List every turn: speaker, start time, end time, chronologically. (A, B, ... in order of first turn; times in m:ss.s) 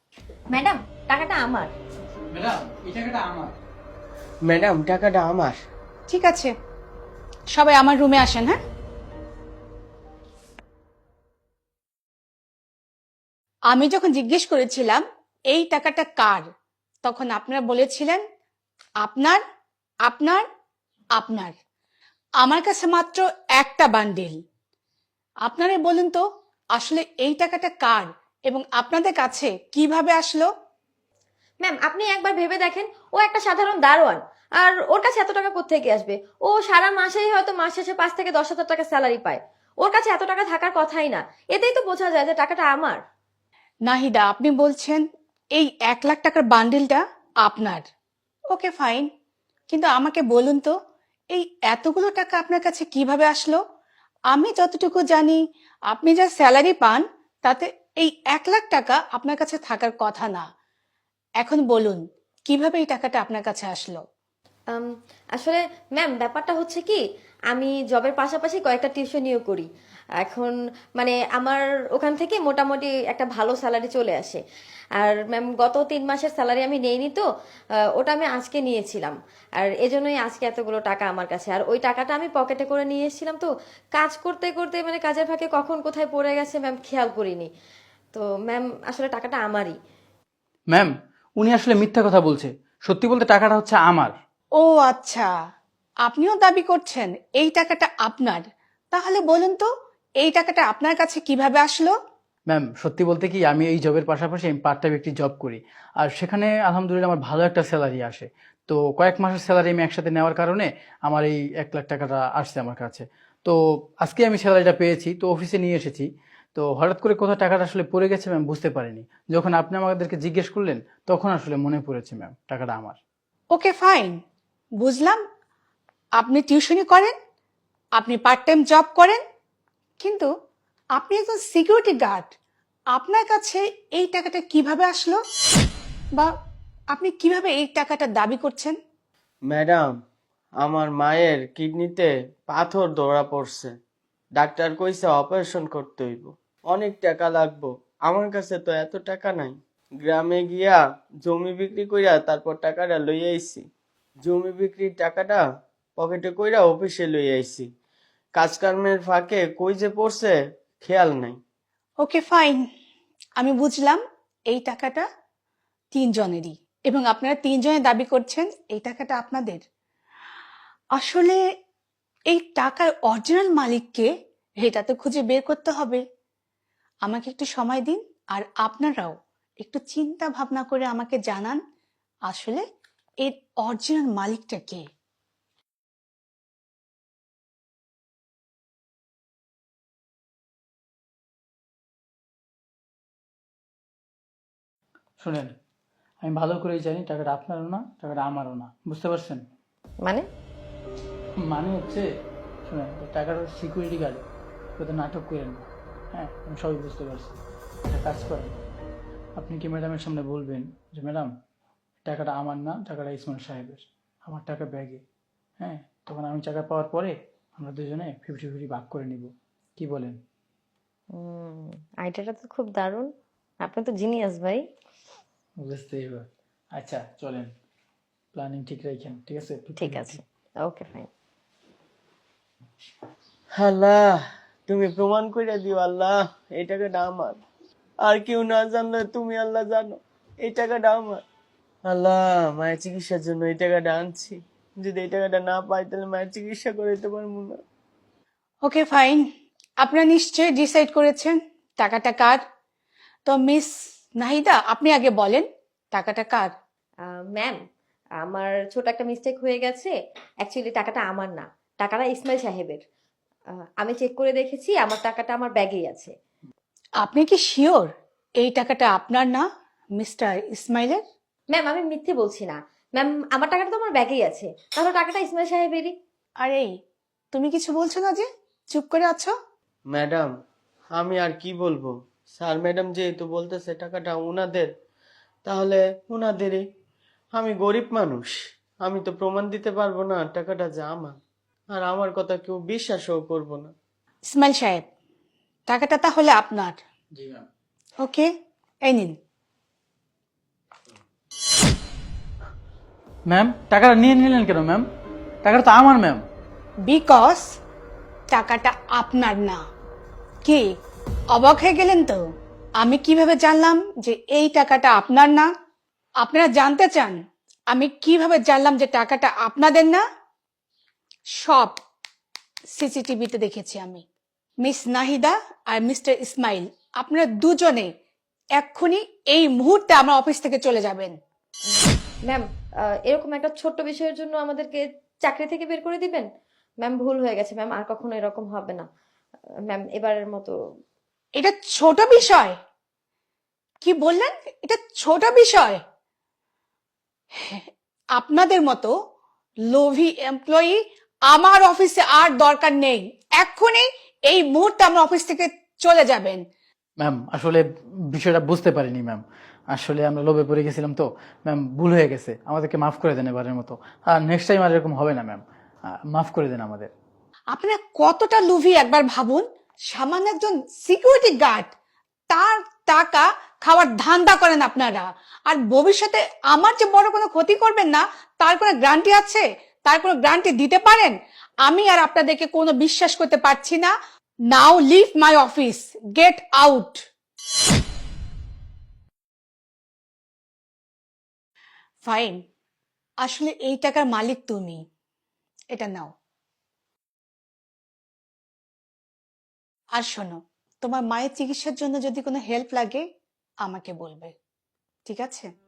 0:00.5-0:01.7 A
0:02.3-0:03.5 B
0:04.4-0:05.6 C
0:06.1-0:06.5 D
0:07.5-0:08.6 D
0:13.7-0:16.5 D
0:17.0-0:18.2 D
0:19.0-0:19.4 D
0:20.0-0:20.4 D
0:21.2-0:21.6 D
0:22.4-0:24.4 D
0:25.4-0:26.2 D
0:26.7-0:30.5 D
0:31.6-0:43.0 A
0:43.9-0:47.8 D
0:48.5-0:49.1 D
0:49.7-0:50.7 D
0:51.3-0:53.6 D
0:54.3-1:00.5 D
1:01.4-1:04.0 D
1:04.7-1:07.0 A
1:07.5-1:09.7 A
1:10.2-1:14.4 A
1:15.0-1:17.2 A
1:18.0-1:27.5 A
1:28.1-1:29.7 A
1:30.7-1:34.1 B
1:34.6-1:35.3 D
1:36.0-1:39.7 D
1:40.2-1:41.9 D
1:42.5-2:03.0 B
2:03.5-2:04.2 D
2:04.8-2:05.2 D
2:06.2-2:07.1 D
2:08.0-2:09.2 D
2:10.0-2:10.3 D
2:11.0-2:12.3 D
2:12.9-2:15.2 D
2:16.9-2:18.8 D
2:19.5-2:20.0 C
2:20.6-2:23.7 C
2:24.4-2:33.6 C
2:34.2-2:35.4 C
2:36.0-2:37.7 C
2:38.4-2:41.4 C
2:42.0-2:42.6 D
2:43.4-2:45.1 D
2:45.9-2:49.6 D
2:50.9-2:51.4 D
2:52.3-2:56.0 D
2:57.0-3:01.6 D
3:02.3-3:02.6 D
3:03.2-3:04.8 D
3:15.2-3:15.6 B
3:16.2-3:19.4 B
3:21.4-3:22.0 B
3:22.7-3:24.2 B
3:24.8-3:28.6 B
3:29.4-3:31.3 B
3:32.1-3:35.0 B
3:35.6-3:40.2 B
3:41.1-3:43.1 A
3:43.6-3:44.6 A
3:45.6-3:47.5 B
3:48.3-3:50.2 B
3:49.8-3:51.1 A
3:53.6-3:57.4 C
3:58.0-4:01.2 C
4:01.9-4:07.6 C
4:08.6-4:09.3 D
4:09.8-4:12.4 D
4:13.3-4:16.5 D
4:17.1-4:17.6 A
4:18.2-4:22.8 A
4:23.8-4:26.1 A
4:27.0-4:27.9 D
4:28.4-4:29.5 D
4:30.0-4:31.0 D
4:31.5-4:35.9 A
4:36.4-4:36.7 D
4:37.3-4:39.3 D
4:39.9-4:40.3 C
4:40.9-4:44.7 C
4:45.4-4:46.6 C
4:47.3-4:51.2 C
4:51.7-4:53.7 C
4:54.3-4:54.8 D
4:55.7-4:56.8 D
4:57.1-4:57.4 B
4:58.0-4:58.3 D
4:58.8-4:59.2 D
5:03.3-5:04.8 B
5:05.4-5:06.2 B
5:06.8-5:07.6 D
5:08.3-5:09.6 D
5:11.3-5:12.2 D
5:12.8-5:15.5 D
5:16.2-5:20.0 D
5:21.3-5:21.8 D
5:22.7-5:24.0 D
5:24.6-5:27.9 D
5:28.6-5:31.2 D
5:33.0-5:36.3 A
5:36.8-5:38.9 A
5:39.7-5:40.6 A
5:41.4-5:42.6 D
5:43.8-5:45.8 D
5:47.4-5:48.9 D
5:49.7-5:56.4 D
5:57.0-6:05.4 B
6:06.1-6:06.9 B
6:07.5-6:11.7 D
6:12.3-6:23.9 D
6:24.5-6:27.0 D
6:32.0-6:32.4 D
6:33.2-6:34.8 D
6:35.7-6:36.1 D
6:40.0-6:43.0 D
6:43.6-6:44.3 D
6:45.1-6:45.5 D